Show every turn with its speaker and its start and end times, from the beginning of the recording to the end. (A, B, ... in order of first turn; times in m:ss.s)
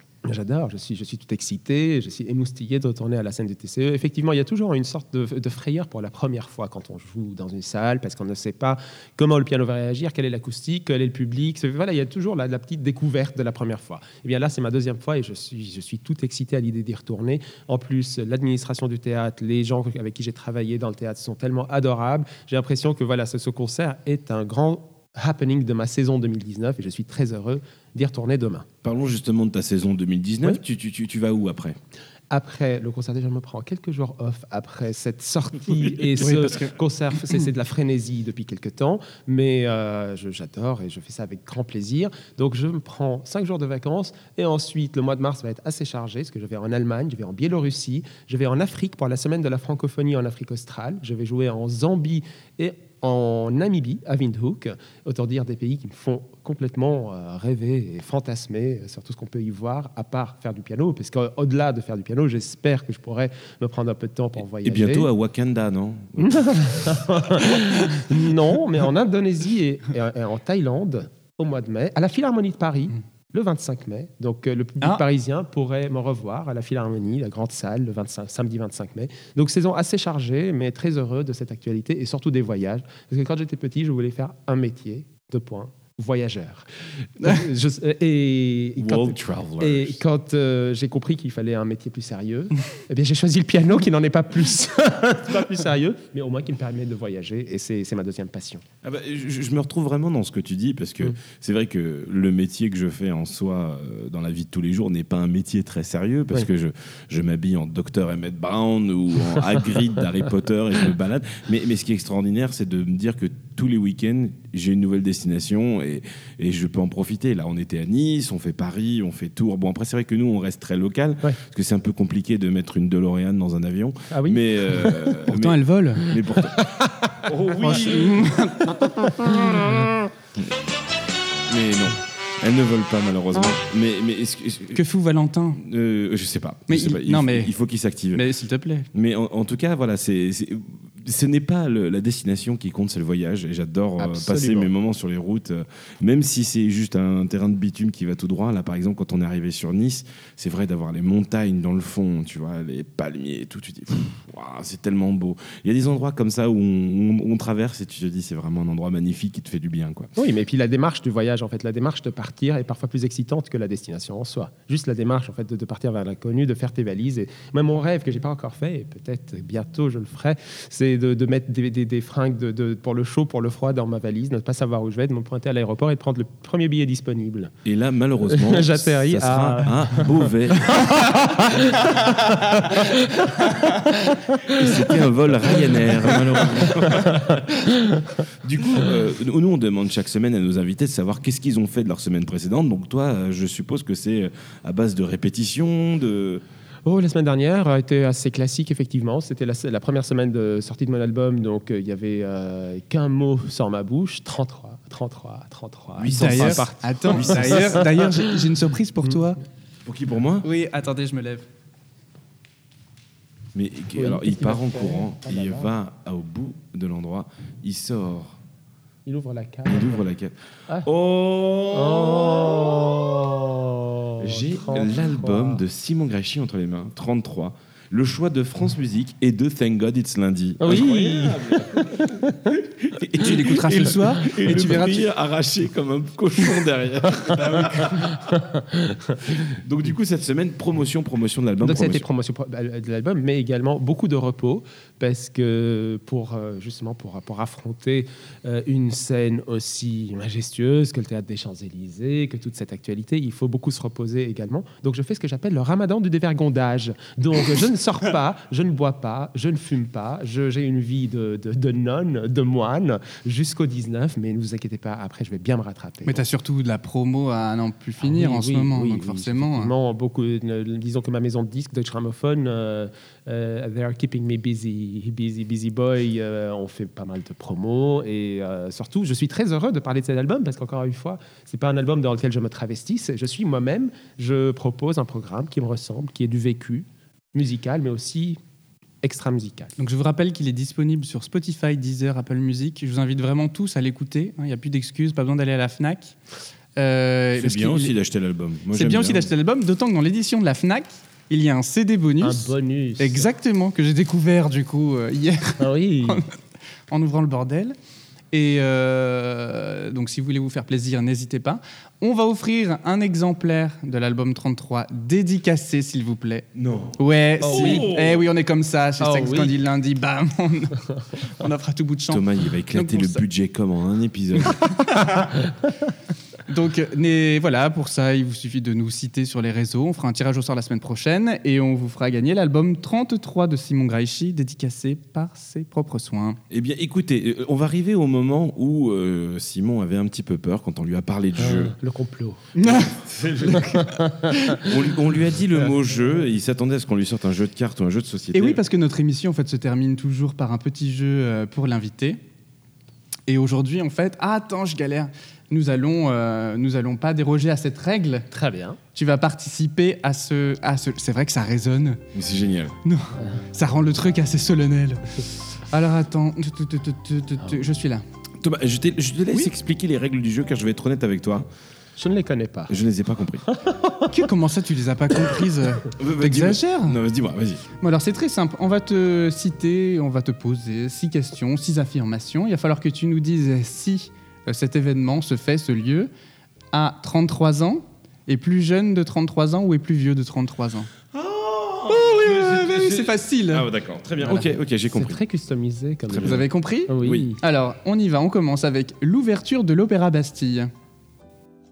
0:00.2-0:28.7 A
0:28.8-0:31.8 B
0:32.3-1:05.1 A
0:36.0-0:36.7 B
0:36.2-0:36.7 C
1:04.6-1:07.2 B
1:06.2-1:38.6 A
1:28.8-1:30.0 B
1:38.8-2:06.7 B
2:04.1-2:05.1 A
2:05.3-2:06.2 C
2:06.3-2:07.2 A
2:07.2-2:08.4 B
2:07.6-2:09.9 C
2:09.1-2:09.9 A
2:11.5-2:14.8 B
2:14.8-2:15.6 C
2:15.6-2:18.2 B
2:16.7-2:17.5 C
2:18.1-2:18.9 C
2:18.9-2:40.1 B
2:24.0-2:24.7 A
2:40.1-2:57.5 A
2:57.6-3:01.0 B
2:58.2-3:05.0 A
3:04.4-3:07.6 B
3:05.5-3:08.2 A
3:08.3-3:16.4 B
3:16.9-3:28.3 A
3:26.0-3:27.9 B
3:26.1-3:29.4 C
3:29.8-3:30.5 B
3:30.4-3:31.5 C
3:33.5-3:38.4 B
3:34.0-3:35.7 A
3:39.1-3:40.0 A
3:39.7-3:43.1 B
3:41.7-3:45.6 A
3:44.2-3:58.2 B
3:50.6-3:52.6 A
3:53.2-3:55.0 C
3:57.4-3:58.1 C
3:57.5-3:59.6 A
3:59.3-4:02.0 B
4:01.6-4:26.2 A
4:26.0-4:29.7 C
4:28.0-4:48.4 A
4:49.0-4:49.8 A
4:49.8-4:56.2 C
4:56.8-4:58.0 C
4:57.4-4:59.3 B
4:58.7-5:06.4 C
5:02.2-5:03.3 A
5:05.6-5:06.2 A
5:06.9-5:07.8 C
5:08.3-5:16.5 C
5:16.5-5:18.2 B
5:17.0-5:23.2 C
5:17.4-5:17.9 A
5:19.0-5:19.5 A
5:22.1-5:24.6 B
5:24.4-5:25.5 C
5:26.5-5:36.4 C
5:36.5-5:41.8 B
5:41.4-5:42.5 A
5:42.6-5:44.6 C
5:42.6-5:43.8 B
5:43.5-5:44.7 A
5:44.6-5:48.6 B
5:48.3-5:52.2 C
5:53.3-5:58.3 C
5:58.3-5:58.8 A
5:59.0-6:02.0 C
6:02.1-6:02.8 B
6:02.8-6:08.0 C
6:08.4-6:11.5 B
6:12.0-6:12.7 A
6:12.7-6:13.4 B
6:13.5-6:14.1 A
6:14.1-6:17.0 C
6:15.9-6:17.6 B
6:17.8-6:26.1 C
6:26.7-6:30.9 C
6:31.1-6:35.2 B
6:31.9-6:33.7 C
6:34.3-6:37.4 A
6:36.1-6:36.5 B
6:36.2-6:40.7 C